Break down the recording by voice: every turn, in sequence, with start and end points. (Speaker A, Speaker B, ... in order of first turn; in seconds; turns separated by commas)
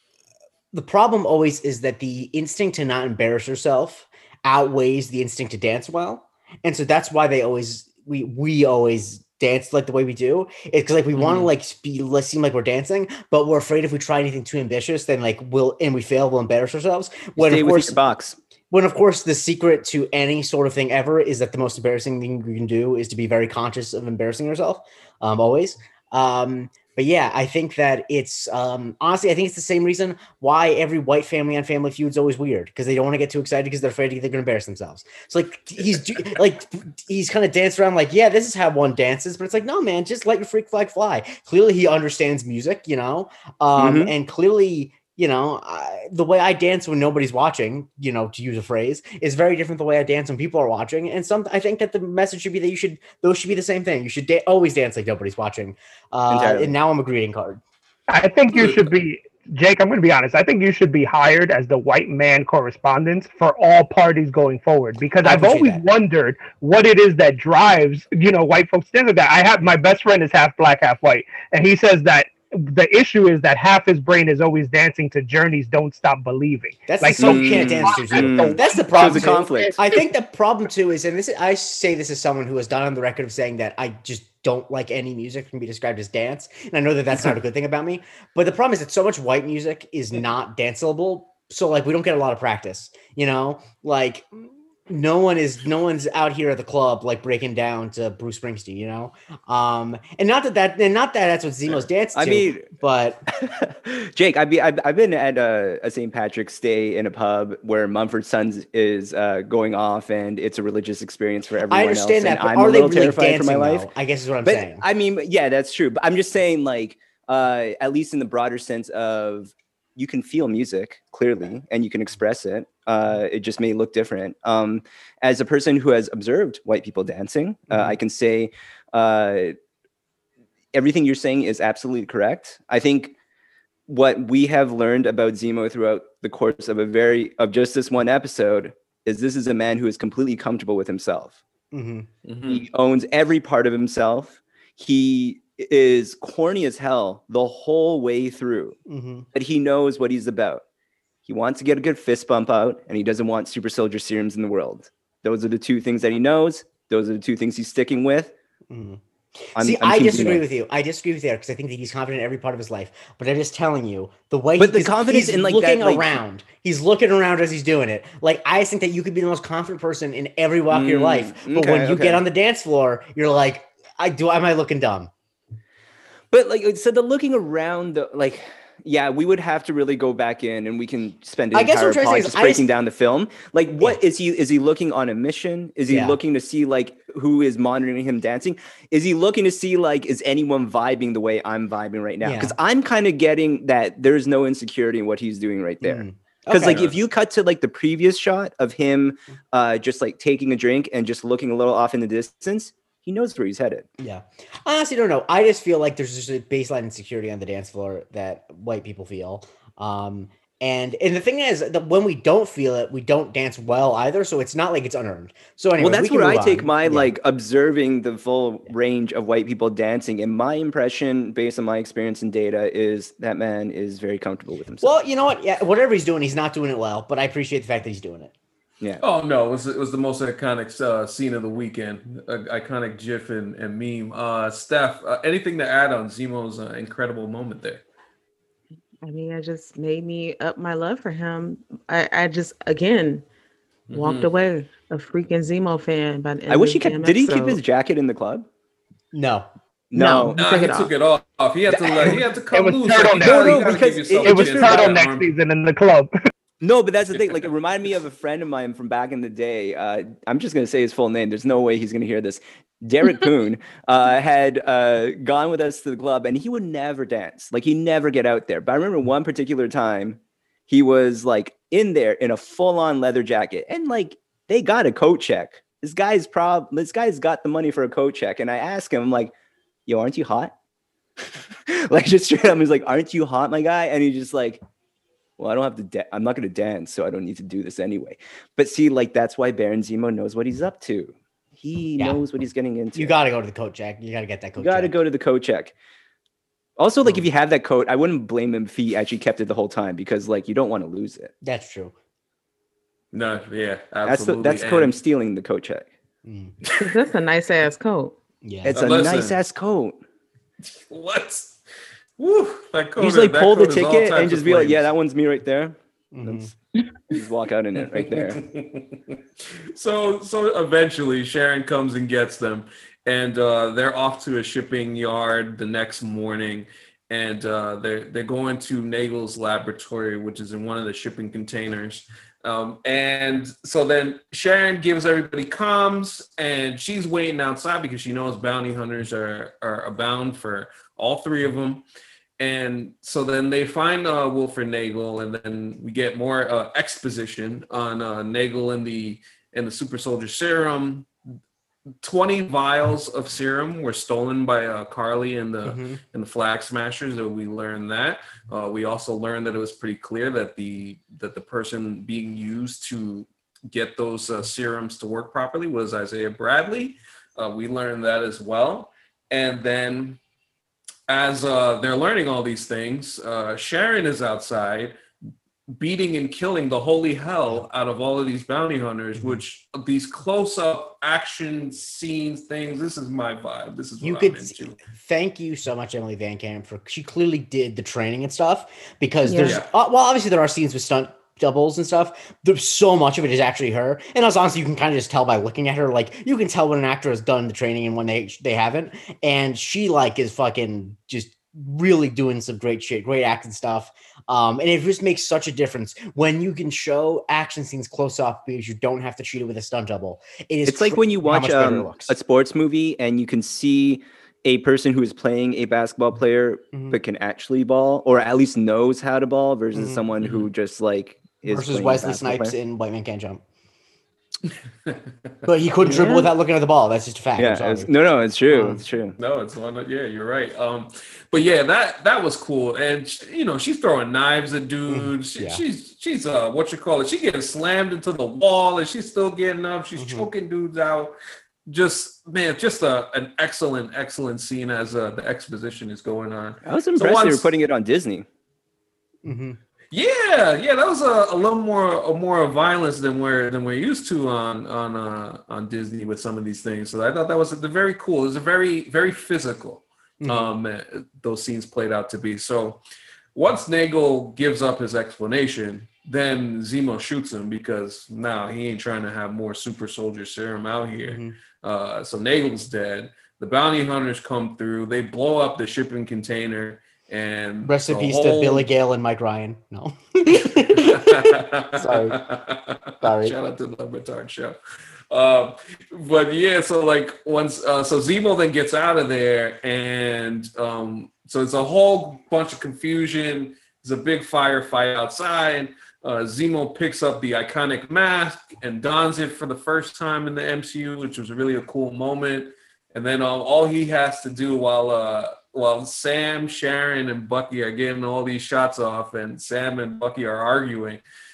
Speaker A: 0.7-18.0, Speaker B: 11.1-11.5, Speaker B: 17.4-18.4, Speaker A: 18.7-57.6, Speaker B: 43.8-44.1, Speaker B: 56.3-56.7, Speaker C: 58.1-80.0, Speaker B: 65.2-65.8, Speaker A: 65.3-65.8, Speaker A: 76.9-103.2, Speaker B: 77.2-79.8, Speaker B: 102.1-102.7, Speaker B: 103.4-113.9, Speaker A: 111.7-114.8, Speaker B: 114.4-129.6, Speaker A: 127.7-128.0, Speaker B: 130.7-133.1, Speaker B: 133.9-141.4, Speaker A: 141.7-142.1, Speaker D: 142.2-142.6, Speaker B: 142.5-148.8, Speaker A: 148.9-149.3, Speaker B: 149.3-150.6, Speaker B: 151.3-158.3, Speaker A: 158.7-159.0, Speaker A: 159.6-175.1, Speaker B: 159.6-160.4, Speaker B: 164.6-166.1, Speaker B: 170.7-172.2, Speaker B: 176.3-203.9, Speaker A: 181.5-182.7, Speaker A: 185.9-186.2, Speaker A: 192.2-192.6, Speaker A: 195.8-196.9, Speaker A: 204.0-217.1, Speaker B: 215.8-224.9, Speaker A: 224.8-228.3, Speaker D: 229.0-237.8, Speaker E: 239.0-243.2, Speaker D: 243.9-244.3, Speaker E: 243.9-247.6, Speaker B: 246.5-248.5, Speaker A: 249.1-249.5, Speaker B: 249.9-250.4, Speaker E: 249.9-250.9, Speaker D: 250.4-255.3, Speaker C: 252.5-256.1, Speaker B: 253.2-255.0, Speaker B: 256.6-279.3, Speaker B: 279.9-280.5, Speaker B: 281.7-284.6, Speaker B: 285.4-293.1, Speaker A: 292.9-294.9, Speaker B: 294.6-295.7, Speaker B: 296.8-301.3, Speaker A: 301.4-301.9, Speaker D: 303.1-304.9, Speaker B: 304.1-305.9, Speaker A: 306.2-306.5, Speaker E: 306.8-308.1, Speaker A: 308.4-308.8, Speaker B: 308.6-310.0, Speaker D: 308.8-309.4, Speaker D: 310.6-311.6, Speaker D: 312.2-314.9, Speaker B: 313.0-316.5, Speaker A: 316.1-316.5, Speaker B: 317.1-318.4, Speaker D: 318.0-319.1, Speaker D: 319.7-341.8, Speaker D: 342.4-351.1, Speaker D: 352.0-370.2, Speaker A: 355.6-356.0, Speaker D: 371.1-374.9, Speaker D: 375.7-384.8, Speaker A: 379.1-379.4, Speaker A: 384.0-412.1, Speaker E: 389.2-389.6, Speaker D: 389.4-389.7, Speaker B: 410.7-422.5, Speaker A: 416.7-417.0, Speaker A: 419.7-420.1, Speaker A: 421.4-423.4, Speaker A: 425.4-427.9, Speaker E: 425.9-426.3, Speaker B: 427.4-429.2, Speaker A: 428.5-428.8, Speaker D: 429.2-441.1, Speaker A: 434.9-435.6, Speaker A: 440.0-440.3, Speaker D: 441.7-447.5, Speaker B: 446.6-448.3, Speaker A: 449.2-449.6, Speaker D: 449.9-462.8, Speaker A: 460.2-460.5, Speaker D: 463.4-478.7, Speaker A: 471.1-471.3, Speaker A: 477.6-482.2, Speaker D: 480.7-484.6, Speaker A: 483.0-483.4, Speaker D: 485.1-511.0